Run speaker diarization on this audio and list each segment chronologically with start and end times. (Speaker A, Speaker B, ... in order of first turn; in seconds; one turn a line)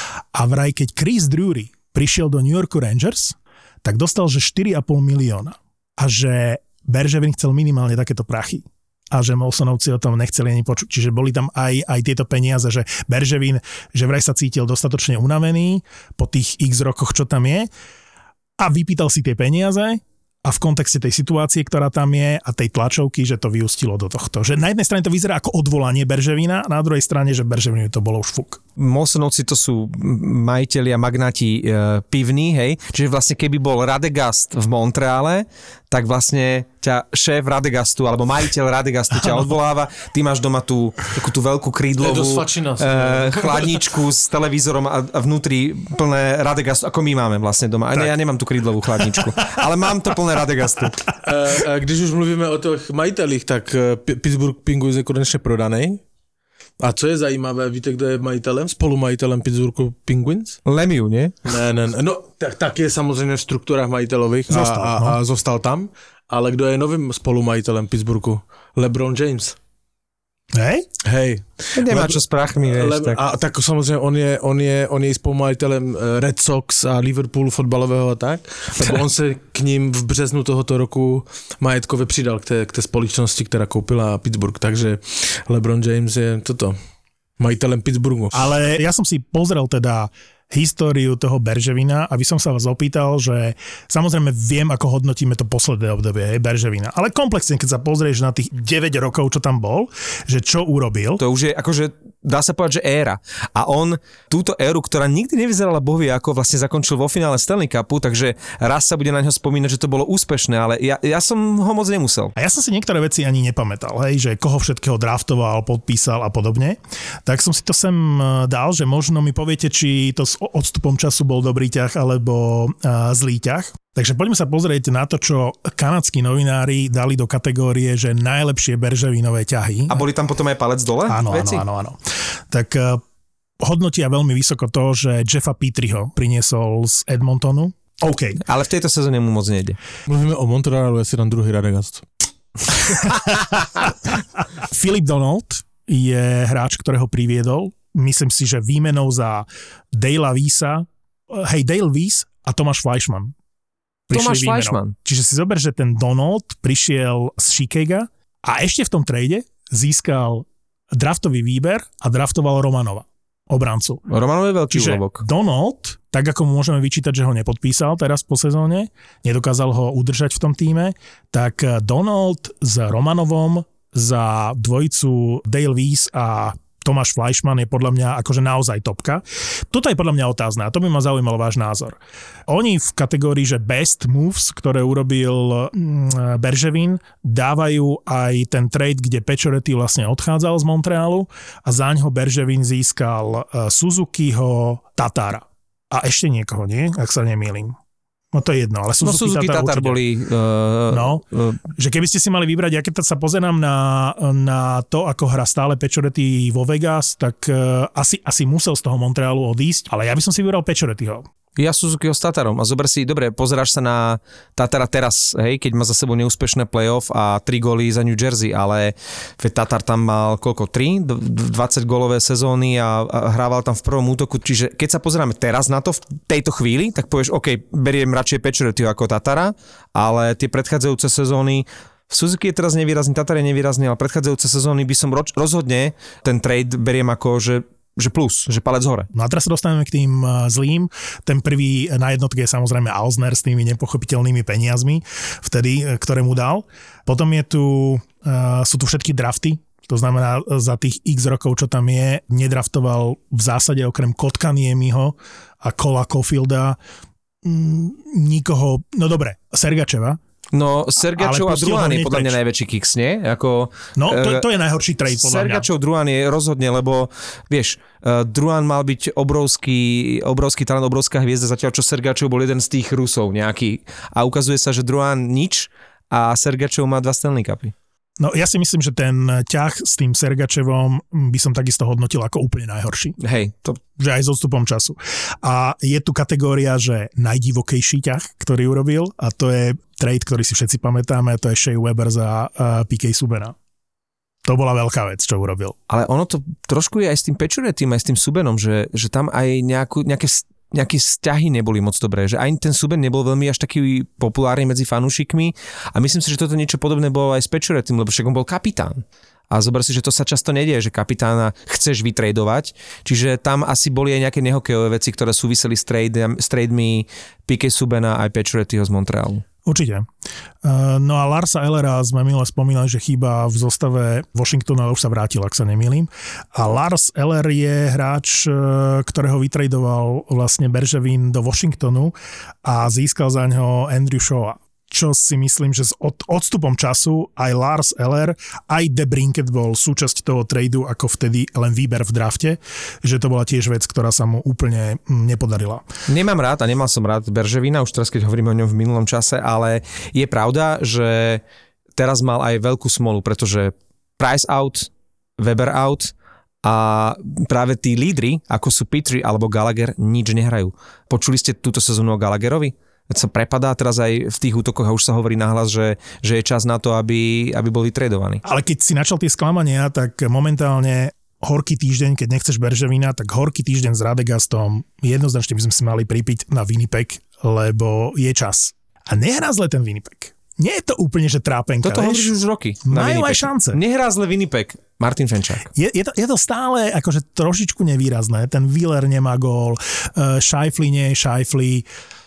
Speaker A: 0.3-17.7
Speaker A: 18.6-28.6
Speaker B: 28.8-51.0
Speaker C: 42.0-43.8
Speaker C: 51.2-56.0
Speaker C: 56.8-60.6
Speaker B: 60.6-61.3
Speaker C: 61.5-69.6
Speaker A: 64.5-65.2
Speaker A: 70.5-70.9
Speaker C: 71.0-86.8
Speaker B: 71.8-73.2
Speaker C: 87.4-88.5
Speaker A: 88.3-101.2
Speaker B: 101.2-112.3
Speaker A: 112.4-130.1
Speaker B: 129.9-131.6
Speaker A: 131.1-132.0
Speaker A: 132.5-133.0
Speaker A: 133.6-138.4
Speaker B: 138.4-139.8
Speaker C: 140.1-142.1
Speaker A: 142.8-143.5
Speaker A: 144.7-153.3
Speaker A: 154.1-164.0
Speaker B: 154.1-154.9
Speaker B: 164.1-165.2
Speaker A: 164.7-182.0
Speaker A: 182.5-197.8
Speaker A: 198.3-200.0
Speaker B: 199.0-201.6
Speaker A: 200.9-201.2
Speaker A: 201.8-211.2
Speaker B: 211.6-239.1
Speaker A: 239.1-256.8
Speaker A: 257.4-260.2
Speaker B: 260.5-264.4
Speaker A: 261.1-262.4
Speaker A: 264.0-265.7
Speaker B: 265.1-277.7
Speaker A: 278.2-283.2
Speaker B: 283.2-283.8
Speaker A: 284.0-293.6
Speaker A: 294.4-295.8
Speaker B: 295.9-319.4
Speaker A: 319.6-320.1
Speaker A: 320.6-345.8
Speaker B: 346.1-351.4
Speaker B: 352.0-356.1
Speaker B: 356.6-368.4
Speaker A: 368.4-382.3
Speaker B: 381.8-385.7
Speaker A: 382.9-383.8
Speaker A: 385.7-391.9